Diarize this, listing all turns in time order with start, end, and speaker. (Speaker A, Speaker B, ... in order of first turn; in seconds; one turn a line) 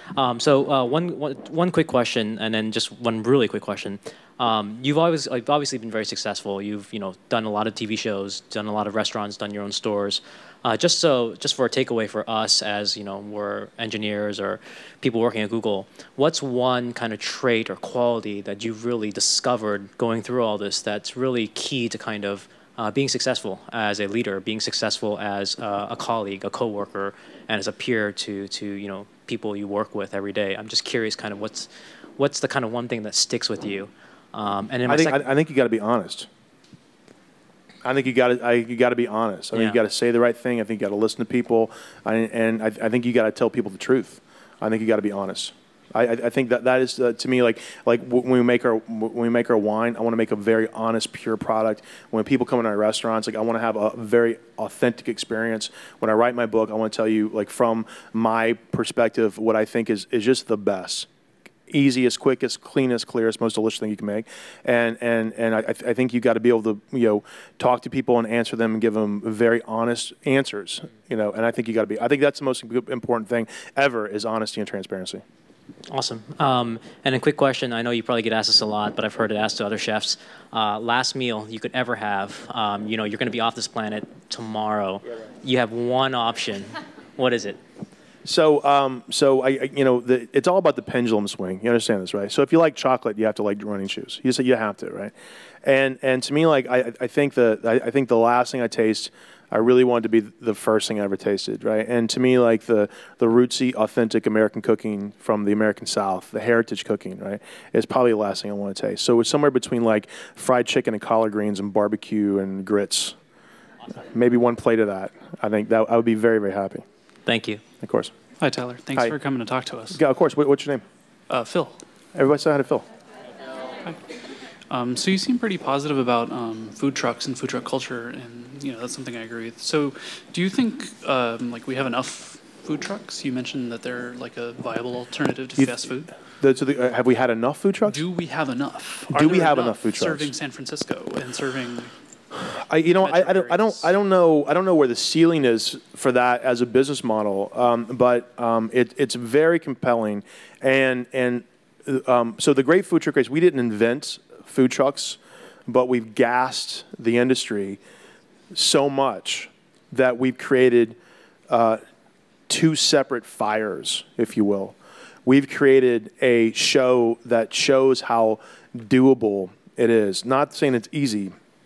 Speaker A: 0.1-35.3
Speaker B: 34.9-36.3
Speaker B: 37.8-61.1
Speaker A: 39.5-39.8
Speaker B: 61.7-75.2
Speaker A: 75.9-87.6
Speaker B: 88.2-95.1
Speaker B: 95.6-113.2
Speaker B: 114.1-116.8
Speaker A: 117.3-117.6
Speaker B: 117.8-118.1
Speaker C: 118.4-120.0
Speaker B: 119.9-120.8
Speaker C: 121.3-121.8
Speaker B: 122.2-122.8
Speaker C: 124.7-136.1
Speaker B: 135.6-138.0
Speaker C: 137.8-141.9
Speaker B: 139.1-140.3
Speaker B: 142.3-157.8
Speaker C: 143.0-143.9
Speaker B: 158.5-161.0
Speaker B: 161.5-161.8
Speaker B: 162.5-164.8
Speaker B: 165.3-171.3